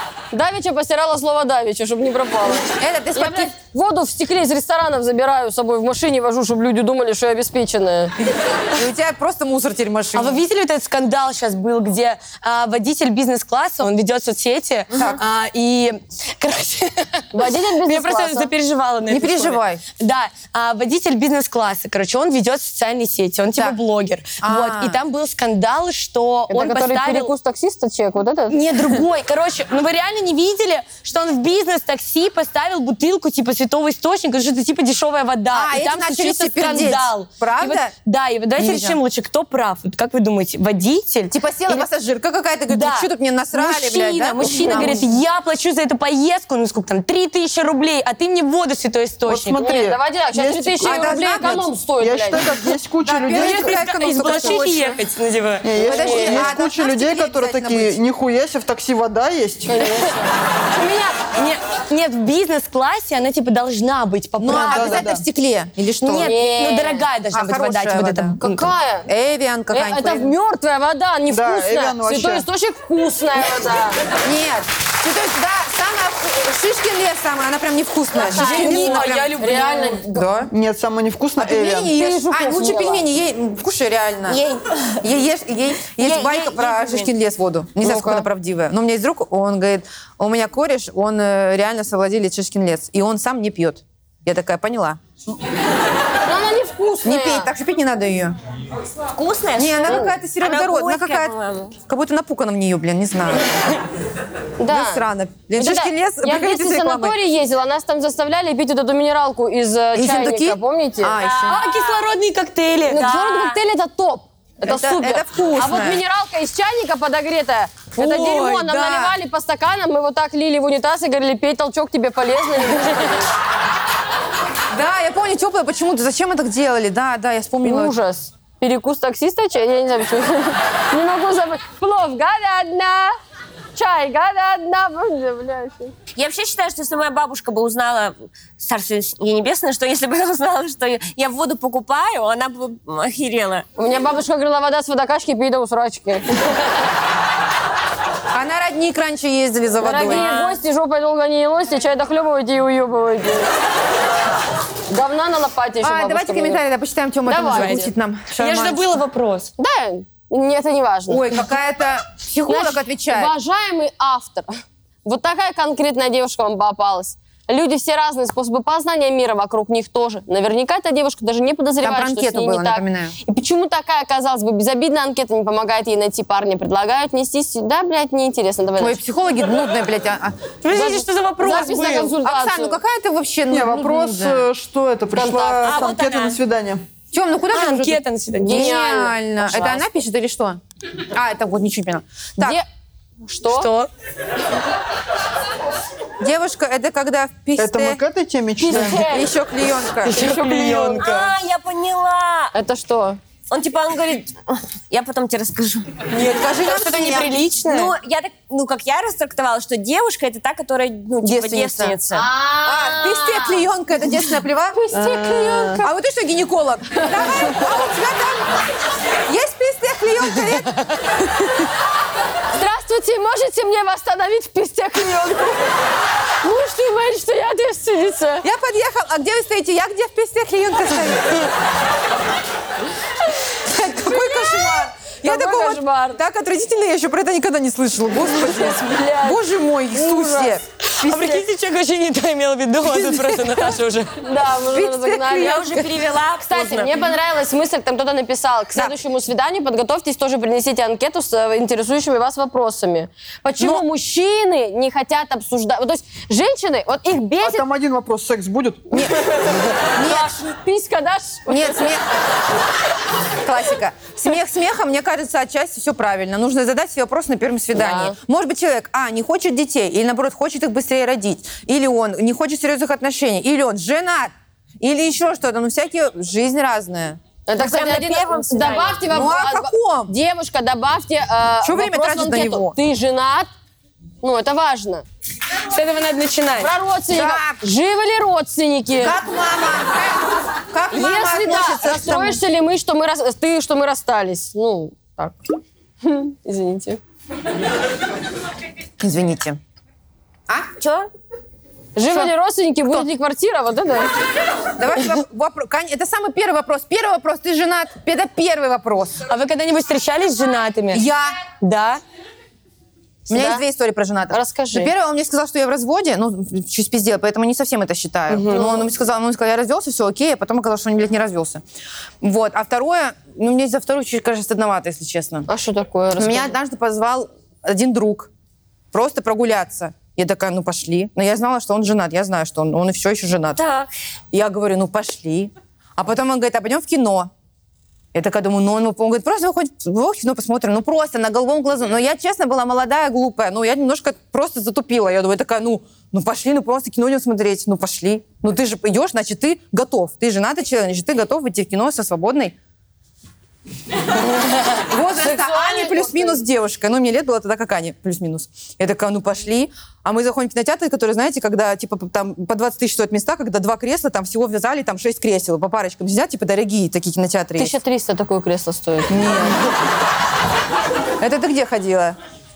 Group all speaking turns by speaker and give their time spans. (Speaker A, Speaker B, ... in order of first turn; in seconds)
Speaker A: 0.3-8.1, 17.3-18.5, 26.5-28.6, 44.7-45.0, 49.6-52.5, 55.8-56.5, 59.7-61.1, 66.2-67.1, 68.4-69.1, 69.7-74.0, 78.2-80.3, 81.9-83.1, 87.8-88.3, 96.3-97.5, 104.6-105.0, 105.6-111.2, 112.9-123.3, 127.6-133.2, 133.8-135.9, 143.8-146.4, 149.8-153.5, 154.9-156.6, 157.3-157.9, 159.6-161.2, 162.5-164.5, 165.1-179.0, 180.7-182.8, 185.1-185.9, 188.4-189.9, 192.4-192.7, 193.2-193.7, 198.6-199.3, 200.1-201.1, 202.5-203.2, 212.1-213.6, 214.7-215.9, 217.0-217.5, 222.6-225.7, 226.4-228.4, 233.8-236.2, 238.3-239.4, 240.0-240.5, 241.1-241.4, 244.2-245.7, 246.4-257.6, 259.0-262.0, 267.8-268.2, 277.5-283.5, 284.2-285.0, 286.6-289.2, 290.9-295.4, 296.0-297.0, 302.0-304.1, 313.3-313.6, 314.3-314.9, 318.4-318.7, 325.5-326.6, 355.0-356.4, 367.6-369.3
Speaker B: 2.7-3.5, 8.8-10.4, 14.9-15.2, 19.1-19.8, 24.4-25.0, 35.5-37.9, 38.6-39.0, 41.3-45.1, 50.8-51.7, 53.0-54.9, 55.7-58.0, 64.4-66.3, 67.3-68.4, 69.1-70.3, 74.2-79.4, 80.1-80.5, 81.4-84.4, 85.0-95.0, 97.0-98.4, 99.6-103.5, 104.7-107.2, 110.0-111.6, 114.7-116.0, 118.0-119.2, 124.7-128.0, 148.3-150.6, 155.8-158.9, 161.1-163.3, 171.8-173.2, 178.8-180.6, 182.2-184.5, 187.1-192.6, 196.2-198.0, 198.7-200.2, 206.1-207.7, 211.2-212.0, 212.6-214.8, 215.8-218.5, 219.3-220.7, 228.4-231.4, 233.6-240.6, 242.8-243.6, 244.7-246.0, 253.6-253.8, 258.9-260.3, 261.5-262.0, 263.4-277.2, 279.1-280.1, 281.6-282.8, 287.1-287.6, 288.9-292.4, 299.0-299.6, 300.5-300.8, 304.8-309.2, 310.9-311.4, 313.3-321.6, 322.2-325.5, 326.1-328.3, 328.9-333.6, 334.3-337.3, 338.1-352.6, 354.8-367.8, 369.1-369.7, 371.2-372.2
Speaker C: 10.1-27.3, 28.5-41.9, 42.7-49.6, 53.3-55.7, 60.8-64.9, 66.2-68.7, 78.2-80.1, 111.5-113.2, 157.5-159.5, 180.6-182.2, 187.5-188.7, 193.5-193.9, 200.0-201.3, 206.2-207.9, 240.9-244.1, 285.7-286.7, 309.2-312.0
Speaker D: 49.3-54.6, 55.6-59.8, 64.5-65.2, 71.3-72.5, 80.5-81.9, 183.5-186.8, 197.6-199.0, 257.4-258.9
Speaker E: 84.3-85.0, 86.0-87.1, 99.1-101.8, 111.2-112.1, 112.9-113.6, 136.2-143.7, 185.6-186.4, 201.0-202.5, 203.5-206.1, 207.7-212.3, 245.3-247.1, 277.6-279.1, 300.8-301.1, 333.6-333.9